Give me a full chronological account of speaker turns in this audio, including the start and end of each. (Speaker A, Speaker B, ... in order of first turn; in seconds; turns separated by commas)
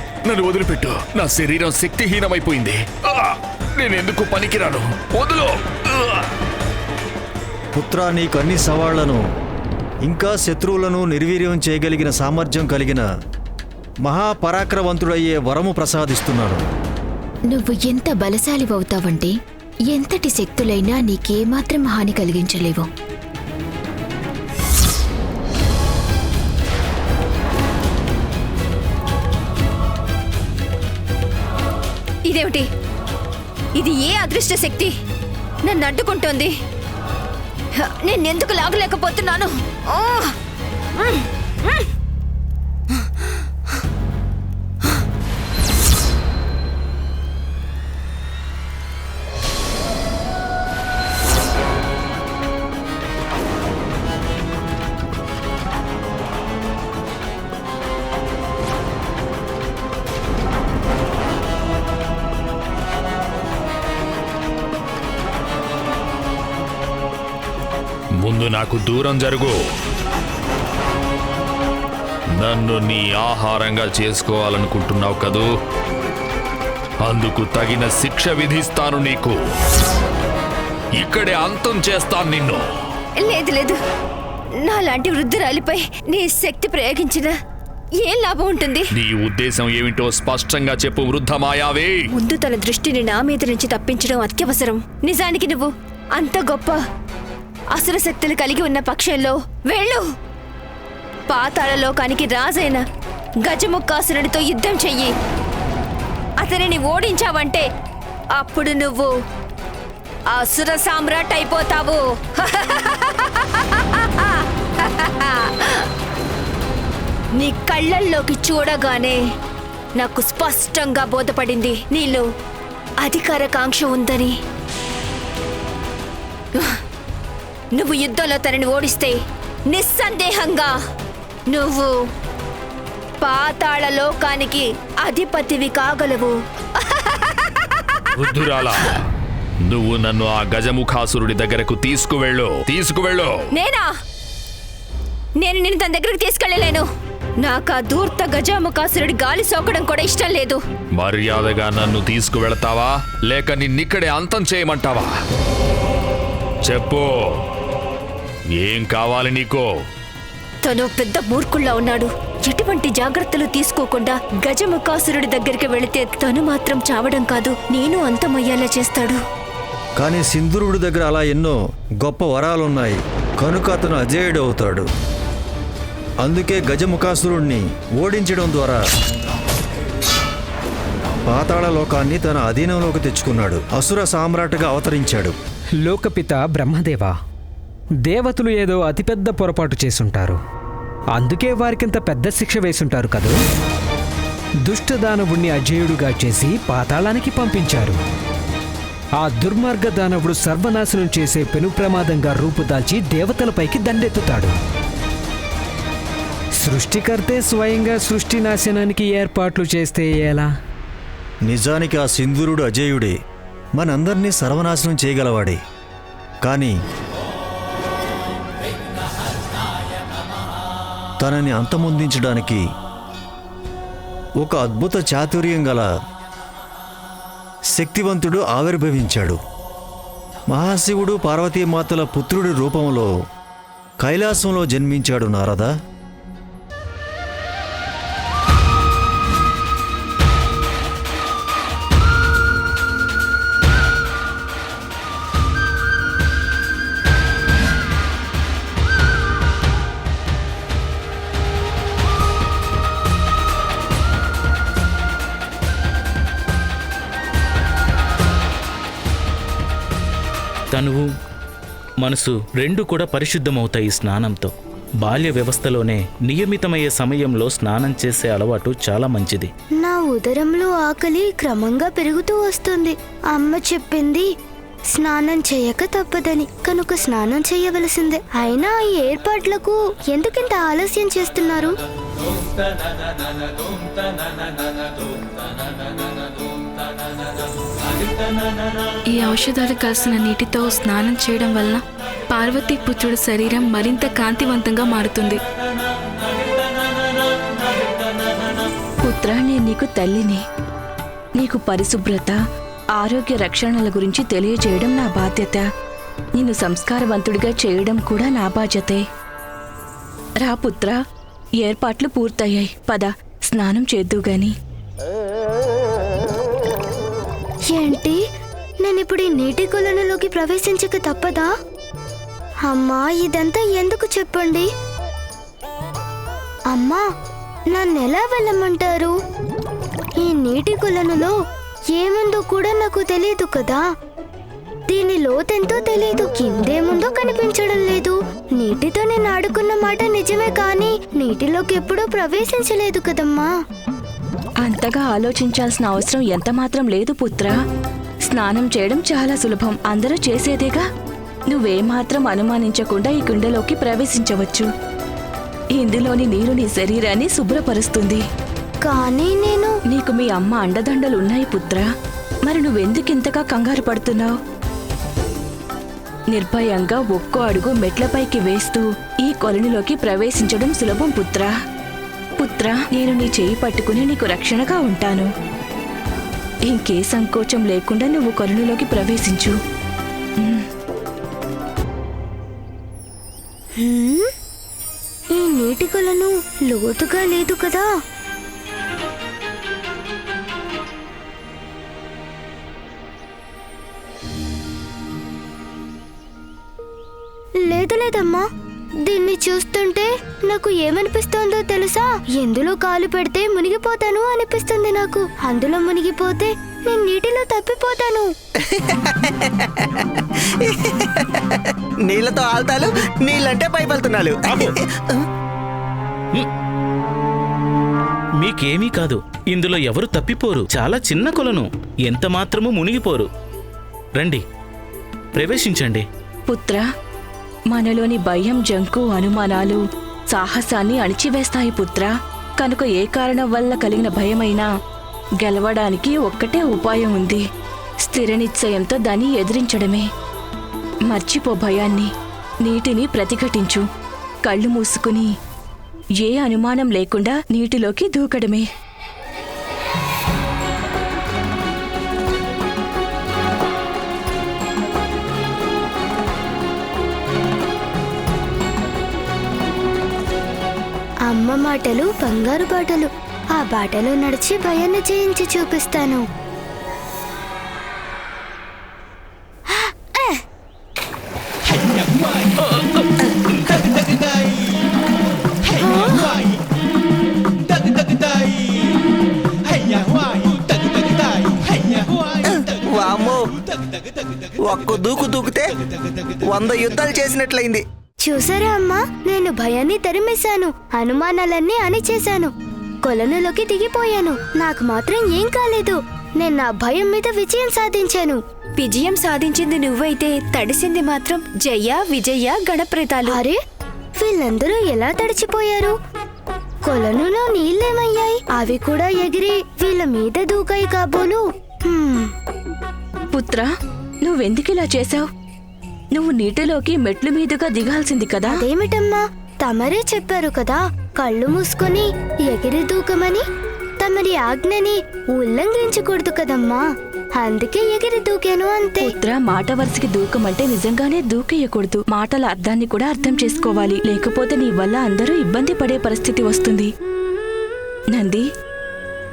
Speaker A: 0.2-6.3, Speaker B: 7.7-9.2, Speaker B: 10.0-13.1, Speaker B: 14.0-16.6, Speaker C: 17.5-19.3, Speaker C: 19.9-22.9, Speaker D: 32.2-32.6, Speaker D: 33.7-34.9, Speaker D: 35.6-36.5, Speaker D: 37.8-40.3, Speaker D: 41.0-41.8, Speaker A: 68.2-69.5, Speaker A: 72.4-75.5, Speaker A: 77.0-79.4, Speaker A: 81.0-82.6, Speaker D: 83.2-83.8, Speaker D: 84.6-87.3, Speaker D: 88.0-88.8, Speaker A: 88.9-92.0, Speaker D: 92.1-96.8, Speaker D: 97.7-100.0, Speaker D: 101.3-102.8, Speaker D: 103.4-105.1, Speaker D: 106.4-107.6, Speaker D: 108.4-109.1, Speaker D: 110.3-113.3, Speaker D: 115.0-115.7, Speaker D: 117.4-119.2, Speaker D: 120.0-122.2, Speaker D: 123.0-124.3, Speaker D: 127.7-129.2, Speaker D: 129.7-130.8, Speaker D: 131.5-131.9, Speaker D: 133.2-136.3, Speaker A: 138.2-139.0, Speaker A: 139.7-143.5, Speaker D: 143.6-143.9, Speaker D: 145.4-146.8, Speaker D: 147.4-150.6, Speaker A: 150.9-155.1, Speaker A: 156.7-157.3, Speaker A: 158.6-159.7, Speaker D: 160.6-169.2, Speaker B: 170.0-174.9, Speaker B: 176.2-178.8, Speaker B: 181.3-185.3, Speaker E: 185.8-187.1, Speaker E: 188.0-190.4, Speaker E: 191.2-193.3, Speaker E: 194.6-198.0, Speaker E: 199.2-204.5, Speaker E: 206.6-210.5, Speaker B: 211.4-213.1, Speaker B: 213.8-215.6, Speaker B: 216.4-216.7, Speaker B: 221.2-222.6, Speaker B: 224.4-225.9, Speaker B: 227.7-229.4, Speaker B: 230.5-233.1, Speaker B: 234.0-235.7, Speaker F: 260.7-261.0, Speaker F: 262.1-264.5, Speaker F: 265.0-269.5, Speaker G: 269.8-274.2, Speaker G: 274.9-281.8, Speaker H: 289.1-295.4, Speaker I: 299.0-300.4, Speaker I: 301.4-302.4, Speaker I: 302.9-305.7, Speaker I: 306.4-309.0, Speaker I: 310.4-311.0, Speaker I: 311.6-314.5, Speaker G: 317.7-318.2, Speaker G: 318.8-321.5, Speaker G: 322.6-324.7, Speaker G: 326.7-327.0, Speaker G: 327.7-329.1, Speaker G: 330.2-331.3, Speaker G: 331.9-333.8, Speaker G: 334.9-343.5, Speaker I: 344.6-347.6, Speaker I: 348.3-350.8, Speaker I: 351.5-354.7, Speaker I: 355.7-358.2, Speaker G: 358.8-359.8, Speaker I: 359.9-361.9, Speaker I: 362.4-364.4, Speaker I: 366.3-371.5, Speaker I: 372.4-375.3, Speaker I: 376.7-379.6, Speaker I: 380.4-380.7, Speaker G: 383.8-384.3, Speaker G: 385.3-387.9, Speaker G: 397.6-398.4, Speaker G: 399.0-408.3, Speaker J: 410.6-411.2, Speaker J: 412.0-415.2, Speaker F: 418.4-423.2, Speaker F: 425.4-426.0, Speaker I: 426.5-426.8, Speaker I: 427.7-434.7, Speaker I: 435.4-437.4, Speaker I: 438.0-440.1, Speaker I: 441.1-442.1, Speaker I: 442.6-443.8, Speaker I: 444.4-445.3, Speaker I: 446.2-448.6, Speaker G: 461.2-466.2, Speaker G: 469.7-470.4, Speaker G: 475.8-476.3, Speaker J: 482.5-483.5, Speaker J: 484.6-485.7, Speaker J: 486.4-487.8, Speaker G: 488.2-492.5, Speaker G: 493.0-498.4, Speaker D: 498.8-503.4, Speaker G: 503.2-503.5, Speaker G: 504.2-505.9, Speaker G: 506.8-512.3, Speaker I: 513.3-513.7, Speaker I: 514.2-515.3, Speaker I: 516.1-518.5, Speaker G: 518.5-523.4, Speaker G: 524.0-526.8, Speaker G: 527.4-529.1, Speaker I: 529.0-536.9, Speaker I: 538.1-538.5